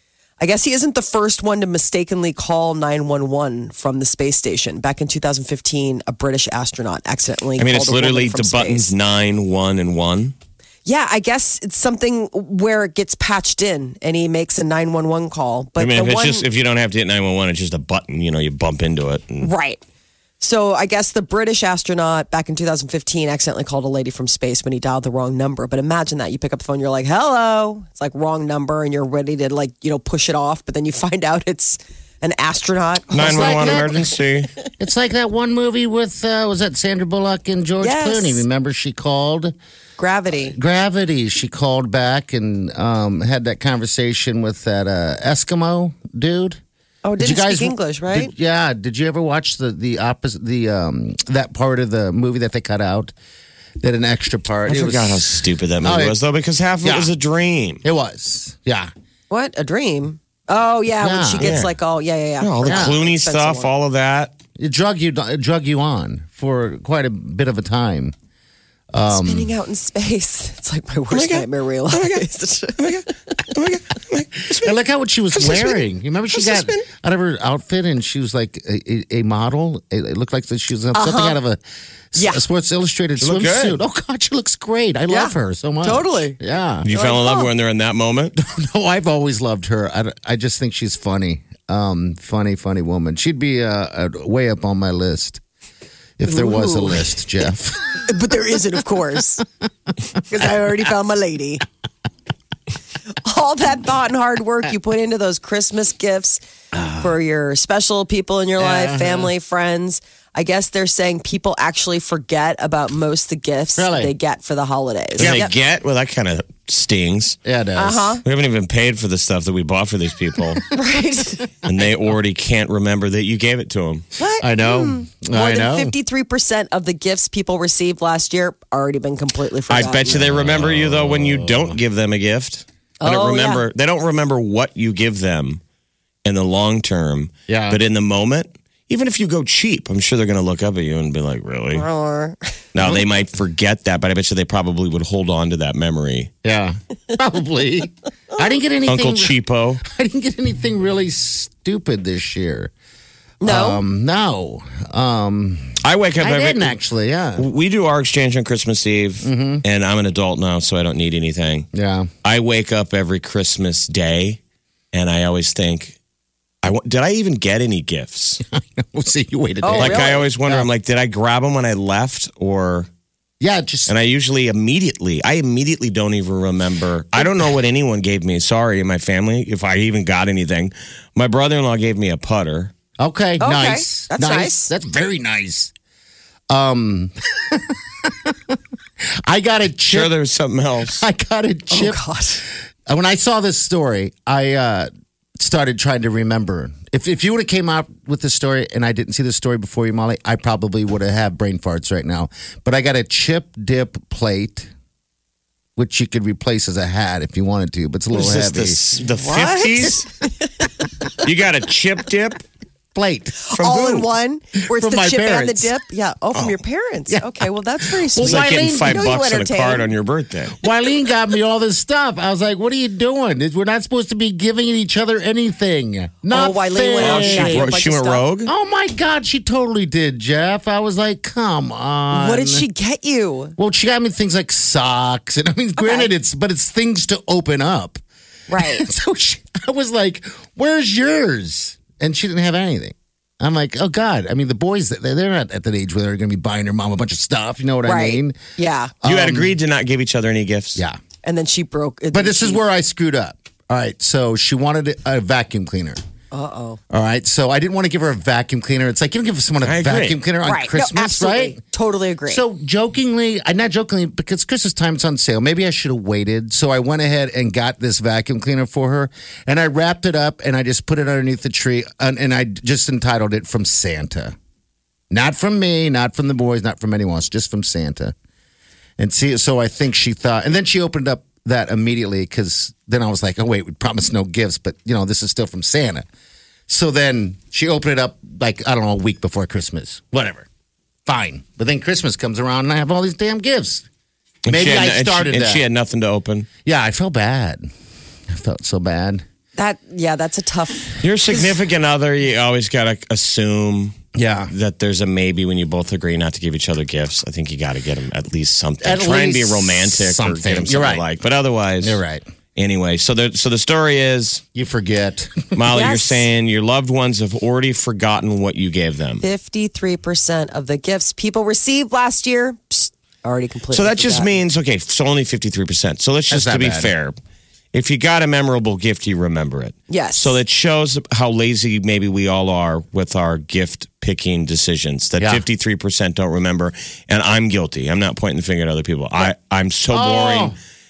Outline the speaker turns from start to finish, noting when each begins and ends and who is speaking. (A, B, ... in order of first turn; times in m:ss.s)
0:00.4-0:08.9 A
0:07.6-0:10.3 B
0:10.8-0:16.4 A
0:15.8-0:19.5 B
0:19.4-0:19.8 A
0:20.4-0:34.0 A
0:33.1-0:34.5 B
0:33.1-0:34.0 C
0:34.8-0:39.5 C
0:37.8-0:38.4 A
0:40.0-0:40.6 A
0:40.4-0:46.6 C
0:47.0-0:48.3 A
0:47.2-0:53.1 C
0:53.8-0:56.2 C
0:54.7-0:57.8 B
0:56.8-0:57.1 C
0:57.8-0:58.9 C
0:59.3-1:03.7 A
1:01.0-1:01.6 C
1:01.4-1:01.7 B
1:02.4-1:04.3 B
1:02.6-1:03.0 C
1:04.6-1:08.1 C
1:08.9-1:09.5 C
1:09.0-1:12.9 A
1:11.1-1:12.2 B
1:12.8-1:14.8 B
1:14.5-1:21.6 C
1:15.4-1:15.8 A
1:16.3-1:16.8 A
1:20.9-1:21.4 A
1:22.1-1:26.9 C
1:22.2-1:22.4 A
1:23.2-1:23.8 B
1:25.1-1:26.4 A
1:26.8-1:28.4 B
1:26.9-1:27.5 A
1:28.4-1:35.4 C
1:36.2-1:38.1 C
1:36.3-1:37.1 A
1:38.0-1:39.4 A
1:40.3-1:41.6 A
1:43.2-1:46.4 A
1:46.7-1:47.1 C
1:47.0-1:55.5 A
1:48.6-1:49.3 C
1:53.8-1:54.1 C
1:55.2-1:55.5 C
1:55.2-1:57.4 B
1:57.4-1:58.2 C
1:57.8-1:58.2 A
1:58.2-2:00.6 B
2:00.7-2:01.5 A
2:01.6-2:04.1 B
2:04.2-2:10.2 A
2:04.4-2:05.9 C
2:09.7-2:15.6 B
2:10.0-2:11.8 C
2:13.0-2:13.6 A
2:16.2-2:21.8 B
2:17.5-2:17.8 C
2:21.7-2:22.5 A
2:22.7-2:26.3 B
2:22.8-2:23.1 C
2:26.4-2:32.7 C
2:28.9-2:29.8 B
2:33.4-2:33.8 A
2:33.4-2:37.5 C
2:35.8-2:36.8 B
2:37.4-2:41.7 B
2:39.2-2:39.6 C
2:41.7-2:42.1 C
2:42.2-2:44.4 B
2:44.9-2:46.0 B
2:46.6-2:48.4 B
2:48.4-2:50.7 C
2:49.6-2:50.2 A
2:49.8-2:52.9 B
2:53.4-2:53.9 C
2:53.9-3:02.7 B
3:03.0-3:05.7 C
3:03.4-3:04.7 A
3:06.5-3:10.1 C
3:09.9-3:11.0 B
3:10.8-3:12.0 C
3:11.7-3:12.4 A
3:12.9-3:24.7 C
3:25.8-3:28.8 C
3:28.1-3:30.1 B
3:29.1-3:30.0 A
3:31.2-3:32.4 B
3:32.9-3:33.4 C
3:33.4-3:39.8 A
3:33.5-3:34.0 B
3:34.7-3:35.7 C
3:37.1-3:39.1 C
3:38.2-3:40.6 B
3:40.6-3:47.7 C
3:46.3-3:48.2 A
3:47.0-3:48.5 B
3:48.4-3:52.6 C
3:52.1-3:53.5 A
3:53.6-3:58.0 C
3:55.8-3:56.1 A
3:58.5-3:58.8 A
3:58.5-4:08.4 C
4:07.8-4:08.9 A
4:09.0-4:09.6 C
4:09.0-4:10.8 B
4:11.2-4:12.6 A
4:12.1-4:16.0 C
4:16.3-4:16.8 A
4:16.9-4:21.6 C
4:19.6-4:20.2 B
4:20.4-4:22.4 A
4:22.3-4:34.4 C
4:35.1-4:38.1 C
4:39.0-4:46.1 C
4:46.7-4:50.5 C
4:51.0-4:53.8 C
4:54.4-4:56.5 B
4:54.5-4:55.6 C
4:56.6-4:57.7 C
4:58.3-4:59.2 C
4:59.6-5:01.0 A
5:01.0-5:04.0 B
5:04.1-5:04.5 C
5:04.5-5:12.0 B
5:08.8-5:11.0 C
5:11.8-5:12.2 C
5:12.6-5:14.4 B
5:14.5-5:15.6 C
5:15.5-5:19.2 B
5:15.7-5:16.2 A
5:19.2-5:24.3 A
5:23.7-5:27.1 B
5:26.3-5:26.9 C
5:27.7-5:40.5 B
5:29.9-5:30.3 A
5:35.2-5:35.4 C
5:39.9-5:40.6 C